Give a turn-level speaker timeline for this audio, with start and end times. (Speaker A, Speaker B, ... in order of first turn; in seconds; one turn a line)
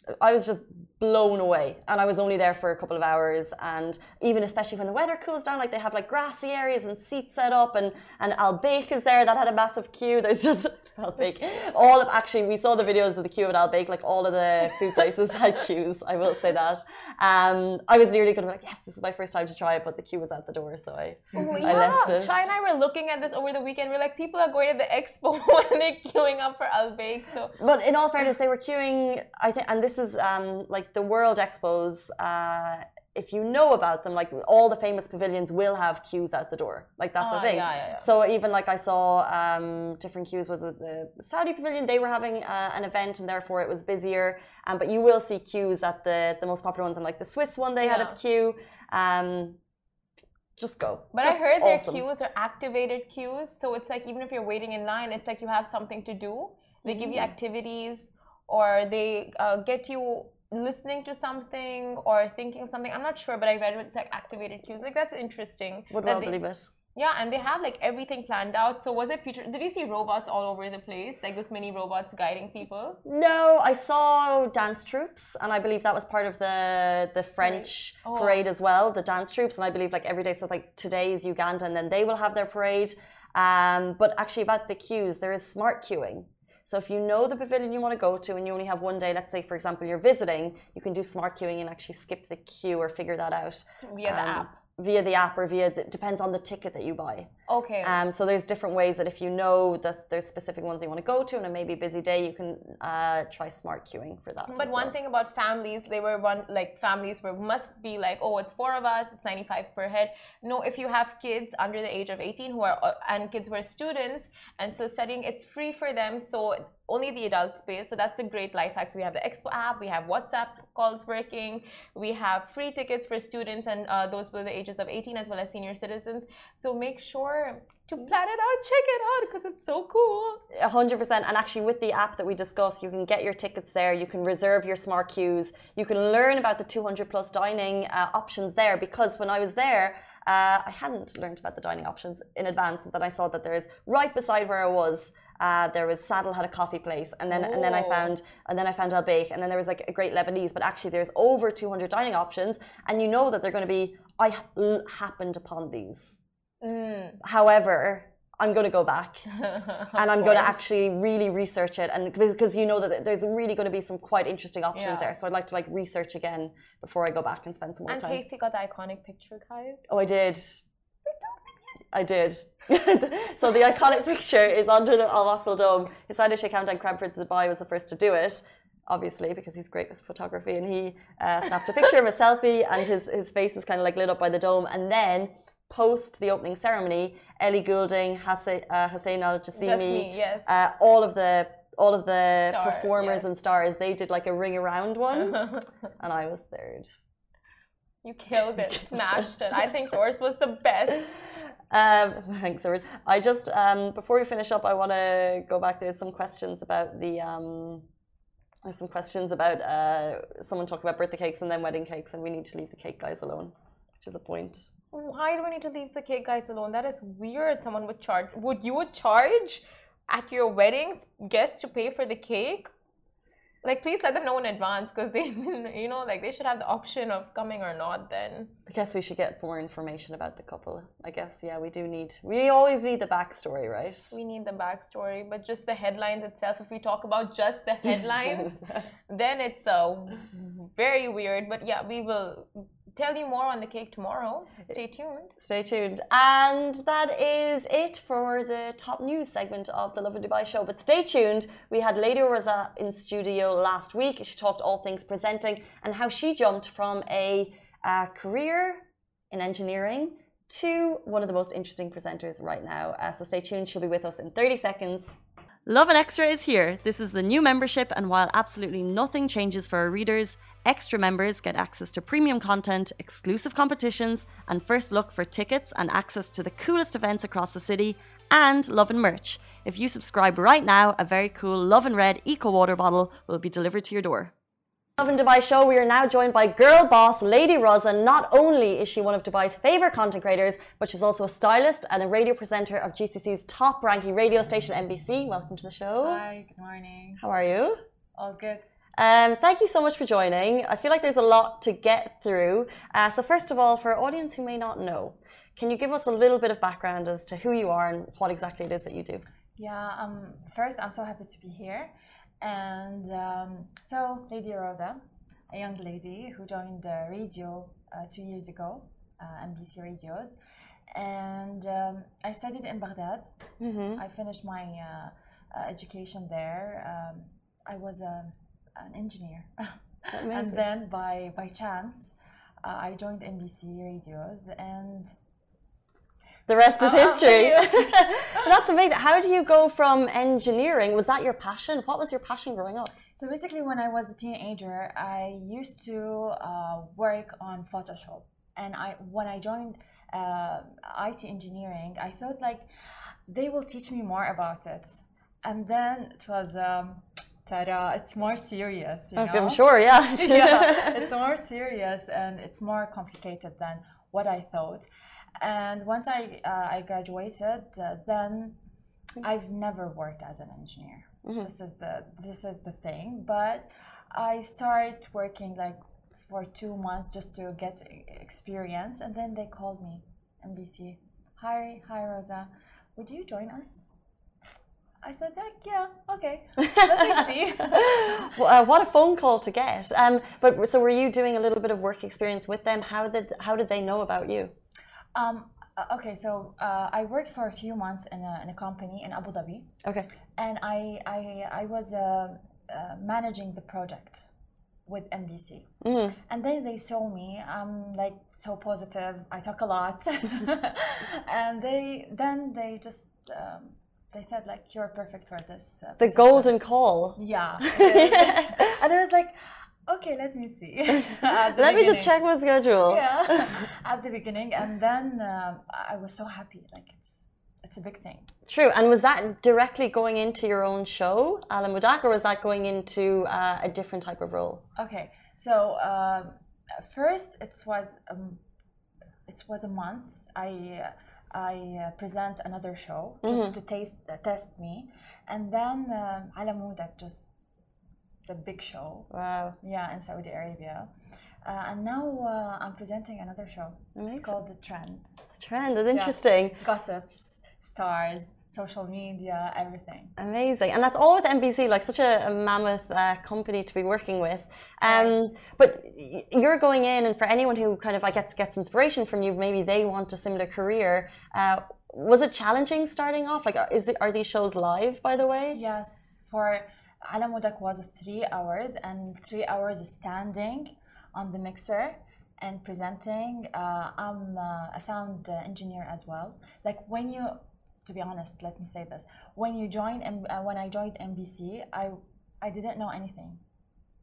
Speaker A: 0.2-22.5
Speaker B: 21.3-27.6
Speaker A: 27.6-49.6
Speaker B: 37.2-38.0
Speaker B: 47.8-48.2
Speaker A: 50.6-52.0
Speaker B: 51.1-66.3
Speaker A: 56.8-57.3
Speaker A: 65.9-66.7
Speaker B: 66.9-73.0
Speaker A: 73.0-97.3
Speaker B: 77.4-78.4
Speaker B: 93.8-94.5
Speaker B: 97.5-98.0
Speaker A: 97.8-104.9
Speaker B: 104.5-130.4
Speaker A: 130.5-156.2
Speaker B: 147.3-148.1
Speaker B: 156.6-157.2
Speaker A: 157.2-159.2
Speaker B: 159.4-160.5
Speaker A: 159.9-168.2
Speaker B: 164.7-165.1
Speaker B: 167.9-169.9
Speaker A: 169.9-170.6
Speaker B: 171.1-171.4
Speaker A: 171.9-196.9
Speaker B: 189.5-190.5
Speaker B: 192.4-193.2
Speaker B: 195.1-195.6
Speaker B: 198.0-201.1
Speaker A: 198.7-199.7
Speaker A: 201.7-207.8
Speaker A: 208.6-214.7
Speaker B: 214.9-222.7
Speaker B: 223.6-228.5
Speaker A: 228.7-234.2
Speaker B: 234.1-245.3
Speaker A: 238.2-238.8
Speaker A: 245.4-284.3
Speaker A: 285.0-296.2
Speaker C: 296.0-297.2
Speaker A: 297.2-297.8
Speaker C: 298.1-298.7
Speaker A: 299.0-309.2
Speaker C: 309.6-320.3
Speaker C: 320.9-323.3
Speaker A: 323.6-324.0
Speaker C: 324.0-335.1
Speaker A: 330.1-330.6
Speaker A: 336.5-342.9
Speaker C: 336.8-338.5
Speaker C: 343.1-352.7
Speaker C: 353.3-364.9
Speaker A: 359.1-361.0
Speaker C: 365.4-368.6
Speaker C: 369.2-383.9
Speaker C: 385.0-388.4
Speaker A: 386.6-394.5
Speaker C: 395.1-399.7
Speaker A: 399.8-400.1
Speaker C: 400.4-404.3
Speaker C: 404.9-405.7
Speaker A: 405.8-406.1
Speaker C: 406.2-416.6
Speaker A: 416.0-418.8
Speaker C: 417.2-419.4
Speaker C: 419.9-422.2
Speaker A: 420.9-423.6
Speaker C: 422.9-428.3
Speaker A: 428.5-434.6
Speaker C: 434.8-438.4
Speaker C: 439.3-447.2
Speaker A: 443.2-443.5
Speaker C: 448.2-449.1
Speaker A: 449.1-449.6
Speaker C: 449.6-450.9
Speaker C: 451.4-455.1
Speaker A: 453.9-454.3
Speaker A: 455.4-456.6
Speaker C: 455.9-460.1
Speaker A: 460.2-475.6
Speaker C: 464.9-465.2
Speaker C: 475.5-493.4